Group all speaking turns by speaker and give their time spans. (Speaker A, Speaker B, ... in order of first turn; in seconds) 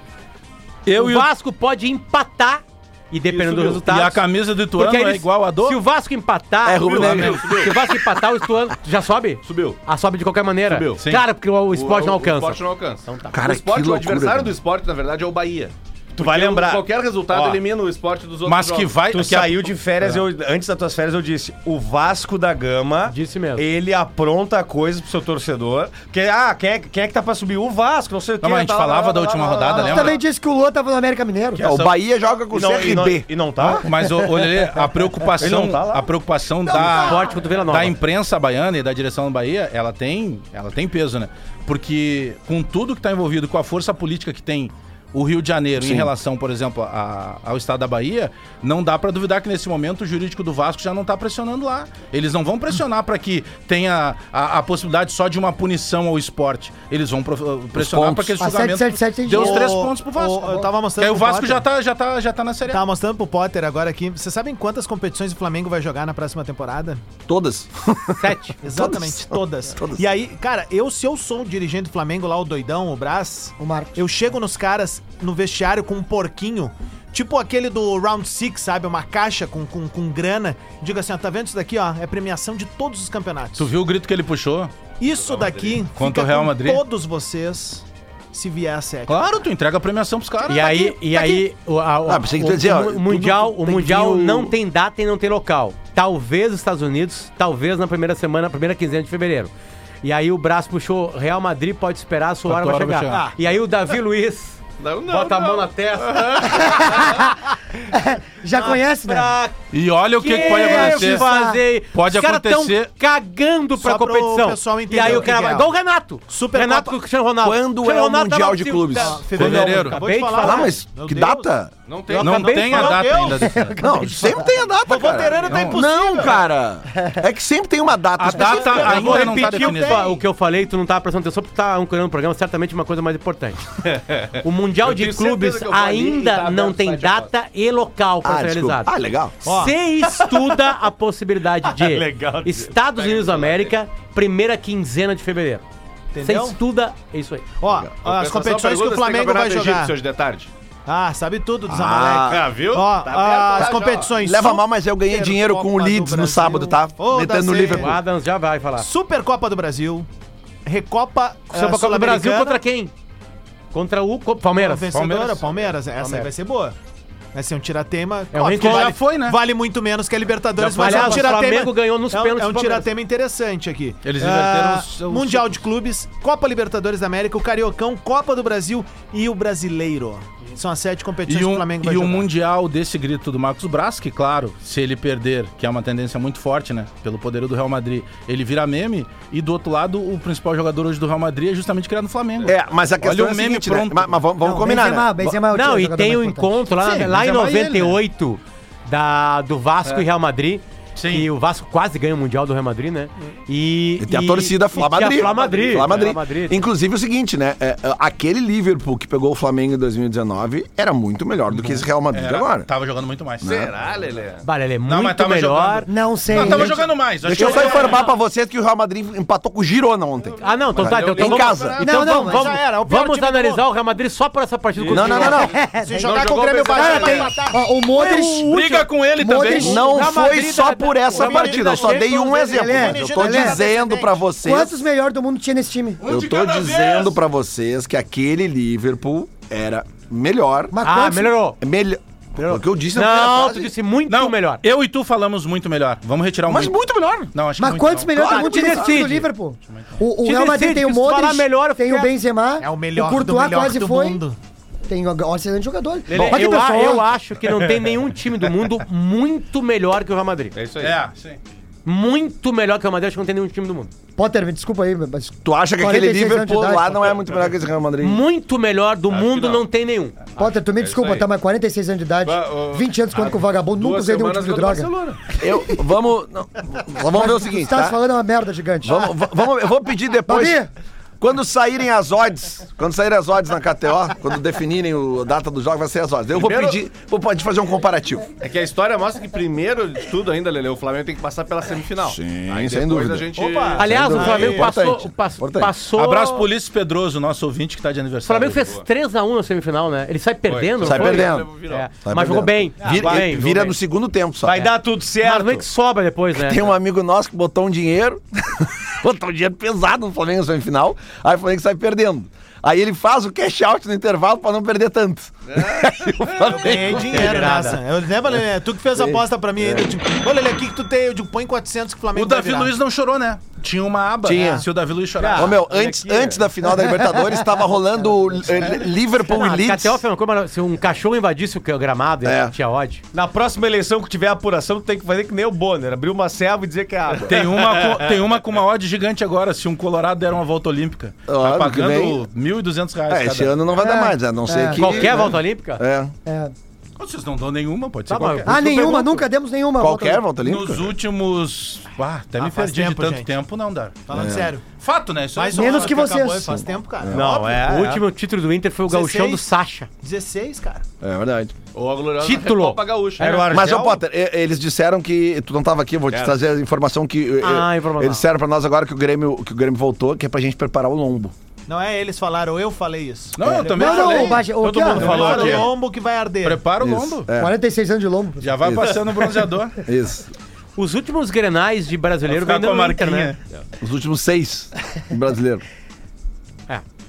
Speaker A: 0.8-1.3, 3.8-5.8, 6.9-7.4, 11.0-11.2, 18.4-20.2, 28.4-30.1, 31.6-31.9, 33.6-62.8, 83.5-84.7, 85.9-86.8, 89.1-91.4, 102.5-103.3, 109.7-111.2, 111.9-112.9, 119.3-120.0, 122.1-124.0, 125.3-125.9, 128.2-130.1, 164.9-165.6, 168.5-169.4, 170.6-171.4, 174.0-175.6, 181.2-194.2, 196.8-197.9, 200.9-201.3, 211.5-213.5, 214.8-218.1, 228.5-229.8, 236.0-237.2, 244.1-246.8, 247.3-248.4, 260.8-261.4, 295.9-298.6, 322.1-325.6, 337.2-343.6, 347.0-348.6, 350.4-354.3, 354.8-356.0, 373.4-375.7, 376.4-377.3, 378.4-379.8, 382.3-383.4
Speaker B: 0.9-4.2, 4.8-13.3, 23.1-23.7, 36.7-38.0, 68.2-68.5, 90.5-99.5, 100.0-107.2, 108.5-109.5, 110.2-120.7, 122.1-123.2, 128.6-133.6, 134.4-145.6, 146.2-147.5, 157.7-158.9, 161.5-162.9, 163.7-164.9, 166.0-166.3, 168.3-168.9, 170.8-172.9, 195.5-206.7, 214.4-215.9, 217.4-218.0, 220.4-225.6, 227.9-232.2, 240.8-241.6, 242.9-244.6, 248.3-249.3, 250.2-252.1, 256.1-260.5, 261.8-263.9, 268.0-270.1, 293.8-296.5, 298.2-303.7, 304.5-306.8, 317.1-317.8, 329.3-333.0, 344.7-345.8, 348.1-349.2, 357.5-359.9, 362.2-363.7, 367.4-368.2, 380.8-383.4
Speaker C: 3.3-3.8, 6.9-7.7, 9.4-9.8, 10.7-11.0, 11.7-19.0, 29.7-30.1, 85.1-85.8, 104.8-107.2, 121.9-122.5, 133.8-137.3, 142.9-143.7, 148.0-150.5, 152.2-154.2, 205.1-206.2, 213.4-214.4, 220.7-221.9, 224.8-225.3, 226.0-227.4, 260.5-261.0, 269.1-269.6, 270.4-271.3, 272.2-275.3, 286.3-286.8, 288.4-293.8, 298.6-298.8, 300.5-301.9, 315.5-316.6, 361.7-363.3, 366.1-366.3
Speaker D: 6.6-7.8, 13.3-14.6, 31.6-33.3, 45.8-46.1, 57.7-58.4, 67.3-70.1, 92.0-93.7, 117.4-119.2, 120.3-121.7, 123.8-128.8, 138.2-139.4, 151.7-152.5, 154.2-158.0, 192.4-195.3, 204.0-212.7, 213.4-213.7, 217.2-221.8, 224.9-225.6, 229.5-234.8, 236.0-240.7, 241.6-243.7, 246.4-247.3, 248.1-248.9, 265.4-268.2, 275.4-278.0, 278.8-280.6, 281.2-288.2, 292.1-295.7, 300.8-301.5, 302.0-304.6, 306.3-317.4, 319.0-319.9, 324.2-324.6, 325.3-330.0, 332.2-332.5, 341.3-342.2, 343.1-346.1, 349.8-350.9, 354.1-354.5, 361.0-361.5, 363.5-371.3, 376.8-377.5, 378.6-378.9, 379.8-380.3, 383.8-385.6
Speaker E: 16.1-17.6, 19.1-30.1, 32.5-33.9, 35.4-36.1, 140.1-140.7, 141.7-142.7, 302.8-303.7, 304.4-305.6, 325.2-326.5, 333.1-337.9, 357.1-358.0, 363.2-364.0, 374.6-375.7
Speaker F: 29.8-31.6, 36.7-37.4, 58.4-59.8, 73.6-74.0, 106.8-107.3, 107.9-109.3, 110.3-111.6, 123.4-124.5, 194.4-196.8, 215.9-216.9, 221.8-222.6, 225.4-225.8, 226.7-228.5, 229.2-229.9, 232.4-233.6, 234.3-236.0, 240.7-241.4, 247.6-254.2, 254.9-257.1, 264.1-267.1, 270.4-274.9, 277.0-279.1, 280.3-280.7, 343.8-345.3, 346.2-346.5, 348.4-350.2, 355.5-356.6, 373.5-375.6, 377.4-378.6
Speaker G: 59.3-61.6, 62.7-67.0, 68.6-83.7, 85.0-89.3, 113.8-115.7, 116.3-117.0, 118.9-121.5, 122.2-123.5, 124.8-126.4, 128.4-130.2, 139.4-139.8, 146.1-146.6, 147.6-149.9, 150.8-158.0, 158.8-160.1, 160.6-162.6, 164.5-166.8, 167.3-182.3, 221.9-223.7, 224.9-227.6, 231.1-234.3, 252.6-254.4, 293.4-294.7, 316.5-322.7, 352.4-353.3, 354.1-354.6, 355.3-357.6, 358.9-359.5, 360.0-360.8, 371.7-376.7